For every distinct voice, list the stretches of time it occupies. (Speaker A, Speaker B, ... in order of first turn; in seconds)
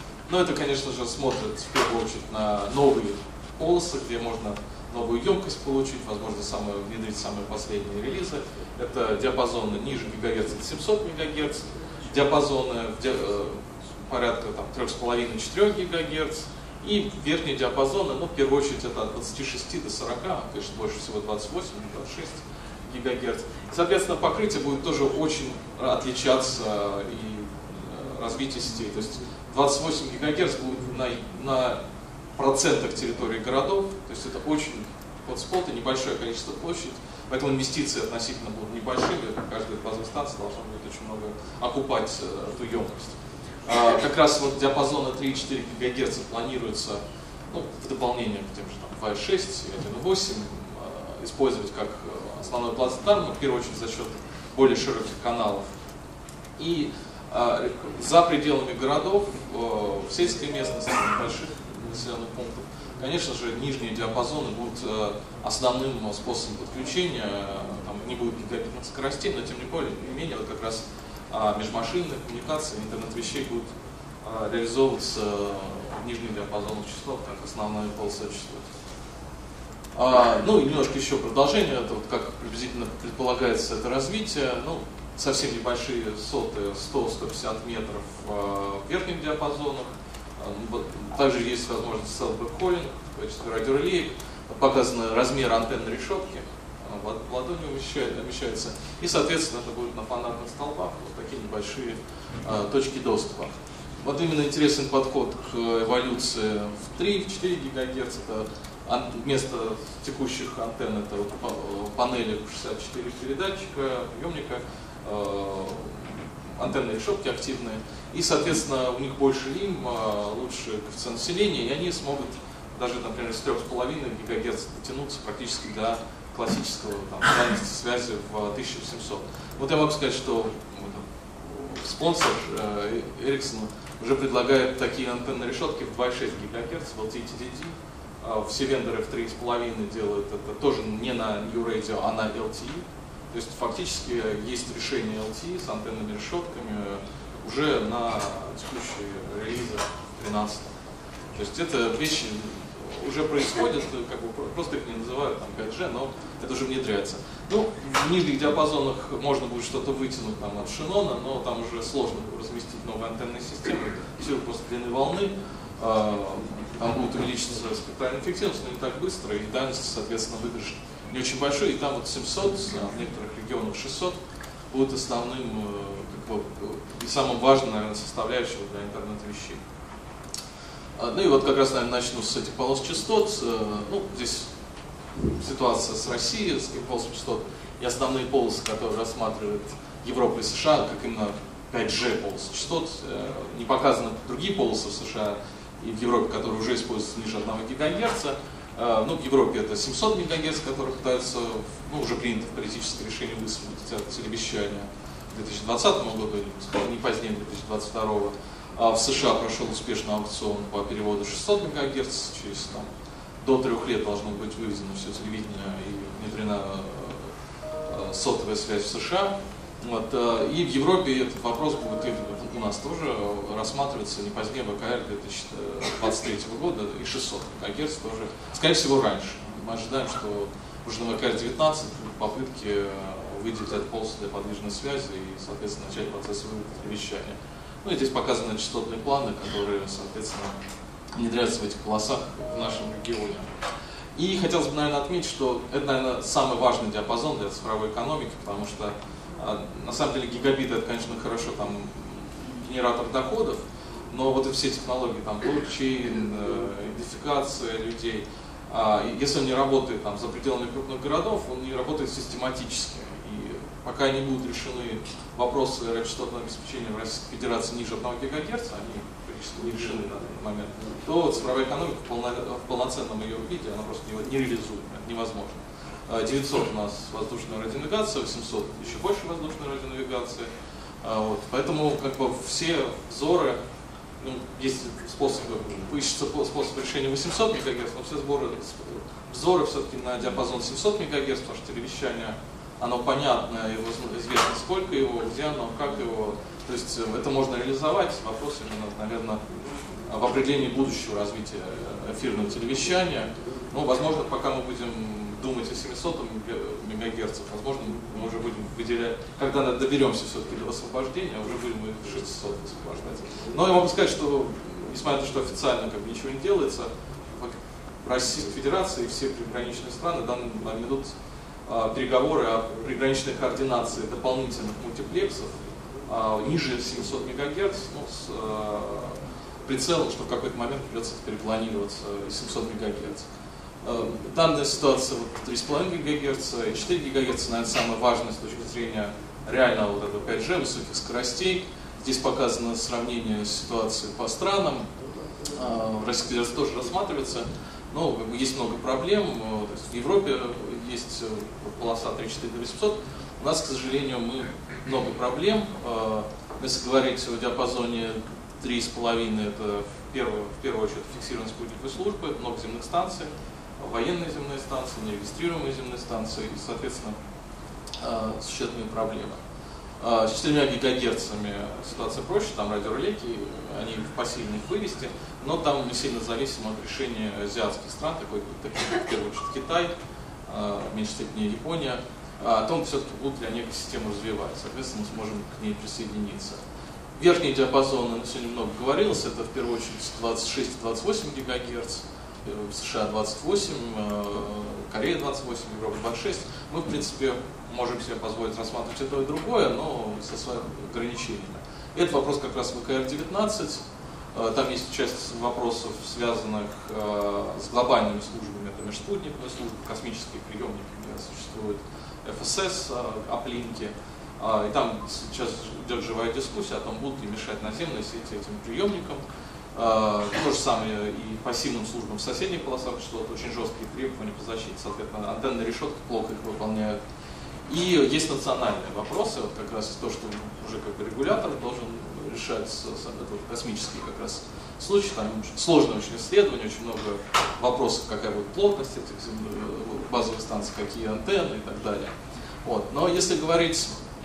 Speaker A: 0.3-31.8, 32.4-55.7, 56.6-73.7, 74.2-78.6, 79.9-150.7, 151.3-174.2, 174.7-179.6, 181.0-184.5, 185.3-212.9, 213.4-217.3, 217.8-240.6, 241.1-243.5, 244.2-280.5, 281.0-283.6, 284.2-299.4, 300.0-321.1, 321.7-325.5, 326.0-333.3, 333.8-344.9, 345.5-367.2, 368.0-369.4, 370.0-379.9, 380.5-386.6, 387.1-419.2, 419.7-427.0, 427.7-442.1, 442.6-443.9